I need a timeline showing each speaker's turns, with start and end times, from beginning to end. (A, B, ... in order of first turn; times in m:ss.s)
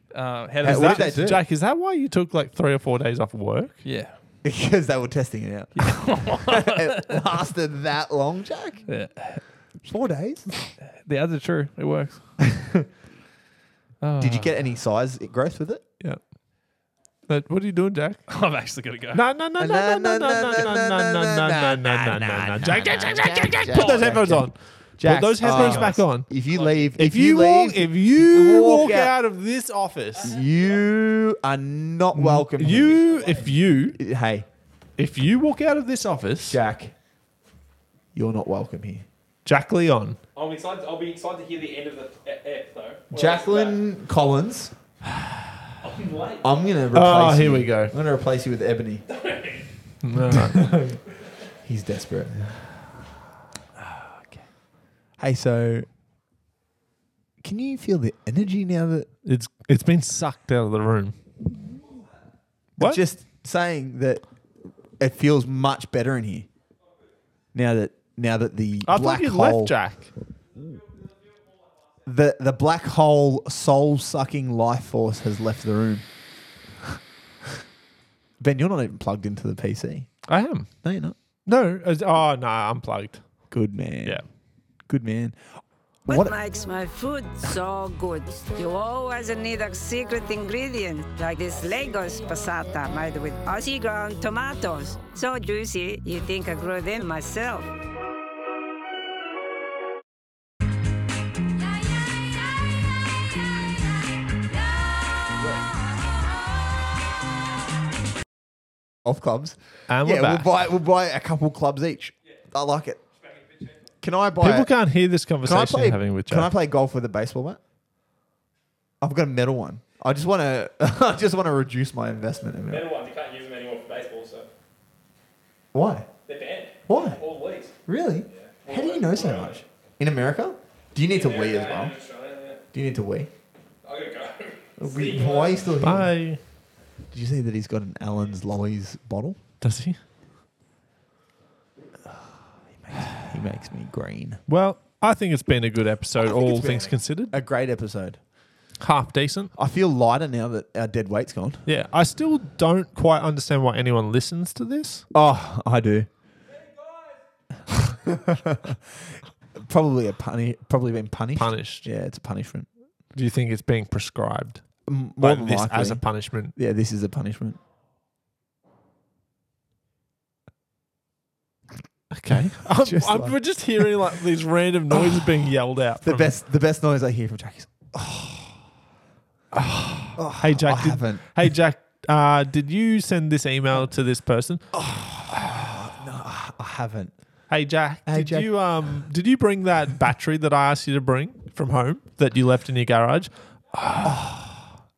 0:00.1-0:01.2 A
0:00.6-0:01.4 B
0:00.6-0:03.8 C
0:03.8-0:04.2 A
0:04.4-0:08.8 B
0:05.7-0:07.2 A
0:08.9-0:09.4 A
0:09.8-0:10.5 B
0:11.0-0:12.2 A
0:12.5-0:12.8 B
0:14.0-0:14.5 A
0:14.2-0:15.8 B
0:17.3-0:18.3 C
0:18.3-0:19.2 A
0:19.1-0:26.3 C
0:19.6-0:29.1 B
0:23.5-0:24.2 A
0:25.4-0:26.0 A
0:27.0-0:30.4 C
0:30.2-0:34.4 B
0:32.1-0:34.0 C
0:35.0-0:36.6 C
0:36.5-0:36.9 B
0:38.1-0:39.0 B
0:39.4-0:40.2 C
0:40.4-0:43.8 A
0:43.1-0:44.7 B
0:45.8-0:46.6 A
0:46.4-0:49.0 B
0:46.9-0:47.9 C
0:49.1-0:49.7 A
0:50.0-0:50.9 C
0:50.3-0:51.0 B
0:51.6-0:52.5 B
0:54.0-0:54.3 B
0:55.2-0:55.9 B
0:57.4-0:59.1 B
0:59.2-1:01.2 C
1:02.8-1:04.2 B
1:05.0-1:06.5 B
1:07.5-1:09.8 B
1:08.8-1:10.1 C
1:12.0-1:16.0 B
1:18.4-1:20.2 B
1:20.3-1:20.7 C
1:20.8-1:21.2 B
1:21.4-1:23.2 C
1:23.5-1:24.2 B
1:24.9-1:25.4 B
1:26.0-1:26.4 B
1:26.1-1:37.7 D
1:49.0-1:53.0 B
1:49.9-1:50.5 C
1:54.0-1:54.7 B
1:54.4-1:56.5 C
1:55.4-1:57.6 B
1:59.0-2:02.9 B
2:02.7-2:04.5 A
2:05.7-2:06.1 B
2:06.2-2:07.7 A
2:06.9-2:07.2 B
2:07.7-2:12.0 B
2:08.3-2:09.6 A
2:11.1-2:12.6 A
2:12.7-2:13.3 B
2:13.8-2:15.7 A
2:14.8-2:16.1 B
2:15.8-2:16.4 C
2:17.1-2:19.4 B
2:19.6-2:20.0 C
2:22.8-2:24.4 B
2:24.5-2:27.4 C
2:26.2-2:28.2 B
2:28.8-2:29.5 C
2:29.6-2:31.6 B
2:31.6-2:35.0 C
2:35.1-2:36.1 B
2:37.7-2:38.8 B
2:39.5-2:42.7 B
2:41.4-2:41.9 C
2:43.1-2:44.6 C
2:44.9-2:47.6 B
2:45.2-2:46.5 C
2:52.1-2:56.3 C
2:52.8-2:53.4 B
2:54.9-2:55.2 B
2:56.0-2:58.6 B
2:59.5-3:04.7 C
3:00.1-3:01.3 B
3:04.7-3:07.1 B
3:07.5-3:14.2 C
3:08.0-3:08.7 B
3:14.0-3:14.8 B